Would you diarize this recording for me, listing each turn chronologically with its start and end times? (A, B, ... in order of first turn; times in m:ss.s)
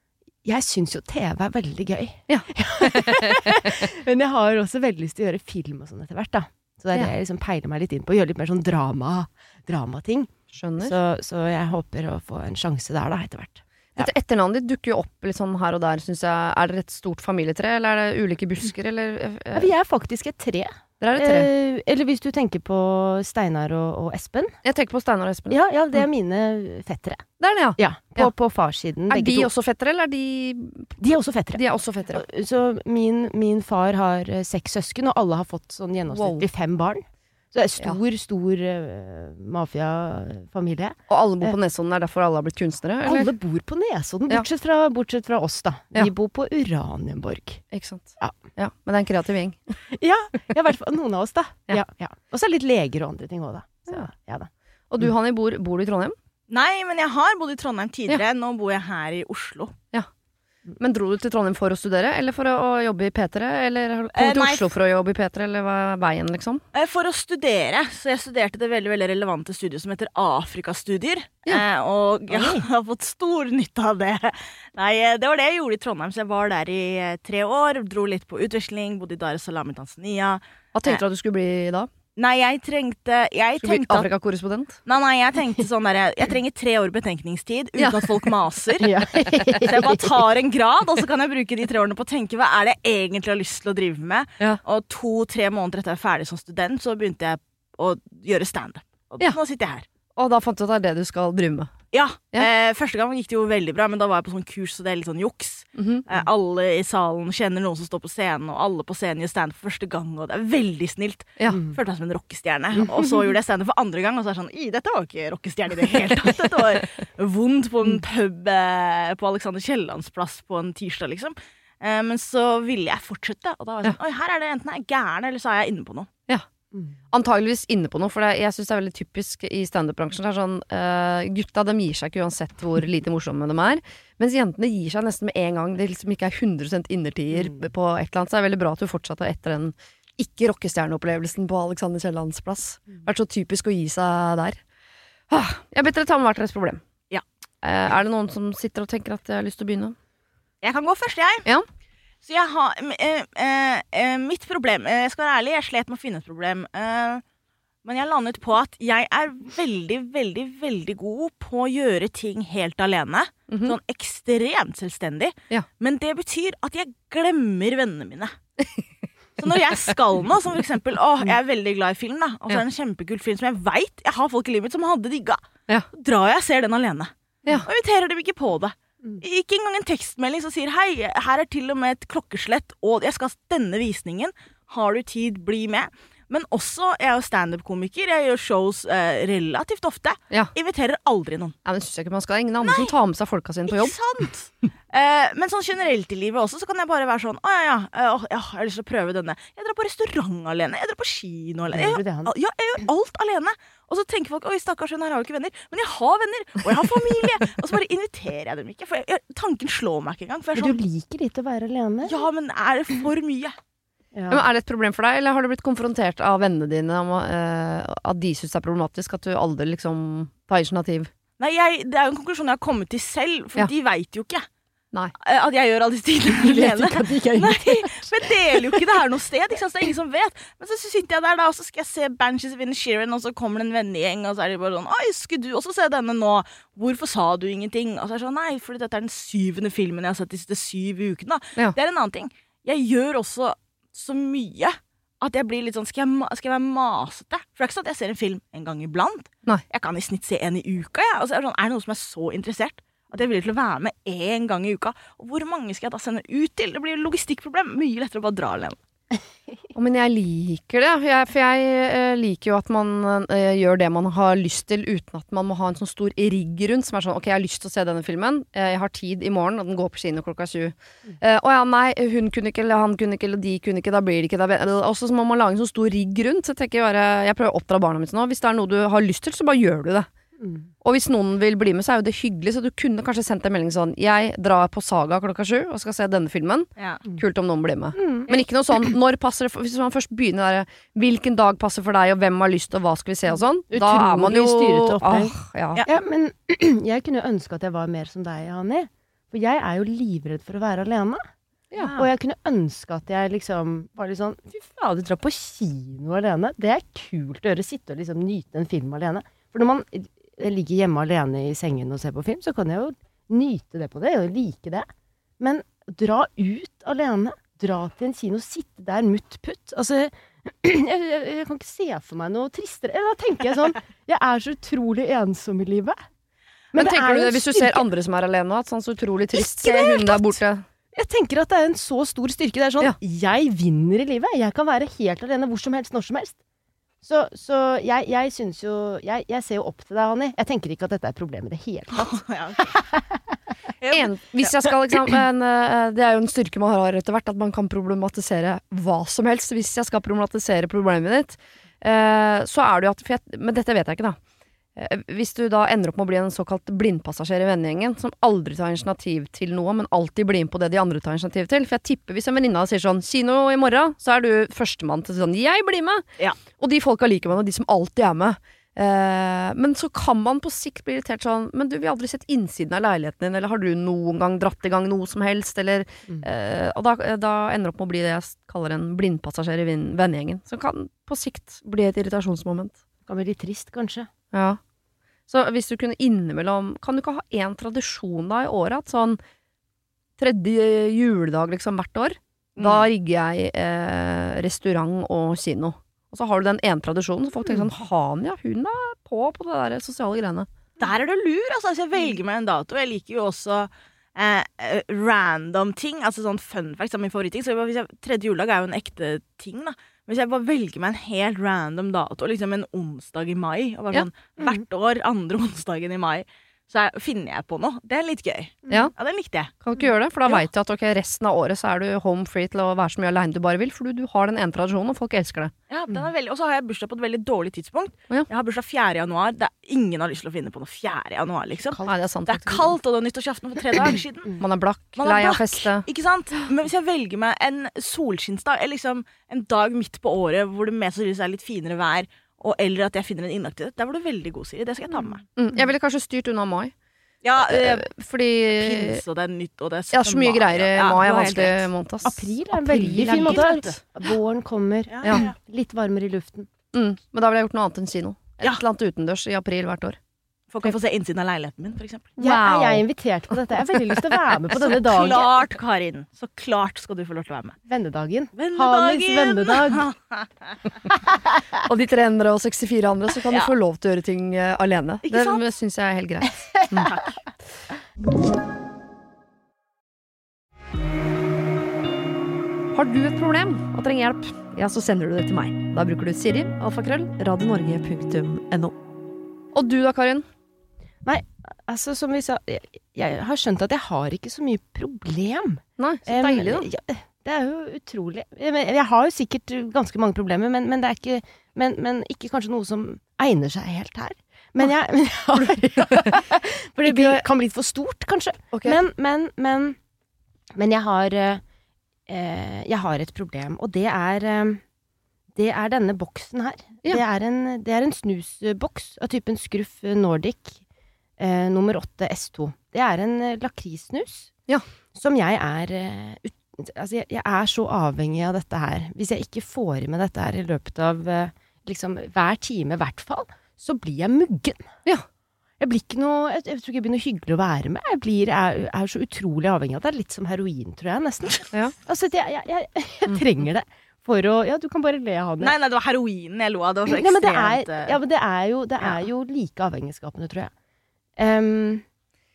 0:00.4-0:14.1 A
0:02.3-0:03.7 B
0:10.5-0:10.9 B
0:14.0-0:19.7 B
0:19.5-0:24.6 A
0:21.0-0:21.5 B
0:24.6-0:25.6 B
0:25.5-0:27.2 A
0:27.4-0:28.3 B
0:27.8-0:29.5 A
0:29.1-0:30.9 B
0:31.0-0:41.5 A
0:31.5-0:32.2 B
0:36.1-0:36.4 B
0:41.1-0:43.3 B
0:43.0-0:47.6 A
0:47.7-0:49.6 B
0:49.9-0:54.5 A
0:54.9-0:56.1 B
0:56.5-0:59.7 C
1:00.8-1:06.6 B
1:04.1-1:04.7 C
1:06.7-1:21.0 C
1:12.3-1:12.6 A
1:20.7-1:21.9 B
1:22.2-1:24.1 C
1:23.6-1:24.8 B
1:24.8-1:28.9 C
1:27.8-1:28.1 B
1:28.8-1:30.2 A
1:29.7-1:39.8 C
1:40.2-1:41.7 B
1:41.9-2:06.1 C
1:45.8-1:46.1 B
1:51.5-1:51.8 A
1:52.7-1:53.3 A
2:07.1-2:24.6 B
2:25.3-2:26.8 B
2:27.6-2:30.0 B
2:30.6-2:31.4 C
2:32.2-2:37.2 C
2:37.8-2:48.3 C
2:43.5-2:43.8 B
2:49.4-2:55.4 C
2:55.9-3:11.5 C
3:11.6-3:14.0 B
3:12.6-3:12.9 C
3:13.7-3:30.8 C
3:21.7-3:22.3 A
3:30.5-3:32.2 A
3:32.0-3:33.5 C
3:34.1-3:34.4 A
3:34.3-3:41.1 B
3:41.4-3:44.4 C
3:45.2-4:18.8 C
3:46.3-3:48.8 A
4:19.7-4:40.1 B
4:40.8-4:55.8 B
4:47.9-4:48.4 A
4:53.7-5:01.2 A
5:01.8-5:02.1 C
5:02.0-5:14.9 A
5:15.4-5:26.0 A
5:26.7-5:27.8 A
5:26.7-5:30.6 B
5:29.6-5:30.3 A
5:30.9-5:36.4 A
5:37.0-5:43.4 A
5:42.0-5:42.7 C
5:43.8-5:44.7 C
5:43.9-5:54.2 B
5:54.8-6:22.8 B
6:23.1-6:24.1 A
6:24.3-6:24.6 B
6:25.3-6:29.2 B
6:30.2-6:40.5 B
6:40.8-6:59.6 C
6:59.6-7:05.5 B
7:05.7-7:14.4 C
7:11.8-7:12.7 B
7:14.4-7:15.8 B
7:15.0-7:25.2 C
7:25.4-7:26.7 B
7:27.2-7:27.9 C
7:27.4-7:29.0 B
7:28.6-7:31.7 C
7:29.9-7:33.5 B
7:32.0-7:36.5 A
7:32.9-7:33.7 C
7:34.9-7:35.3 C
7:36.7-7:40.0 B
7:40.5-7:42.2 C
7:42.2-7:45.4 A
7:42.2-7:42.8 B
7:44.5-7:47.6 C
7:47.7-7:49.9 A
7:48.4-7:50.6 C
7:51.6-7:56.9 B
7:55.0-7:55.4 C
7:56.7-7:57.2 C
8:02.7-8:08.7 B
8:09.5-8:10.2 B
8:11.0-8:29.8 A
8:15.8-8:16.7 B
8:26.8-8:27.2 B
8:28.5-8:28.8 B
8:30.5-8:31.4 A
8:32.1-8:34.6 A
8:35.4-8:40.6 A
8:41.2-8:44.3 A
8:44.9-8:54.7 A
8:55.6-9:05.5 A
9:05.4-9:08.0 C
9:06.9-9:10.5 A
9:11.2-9:11.8 A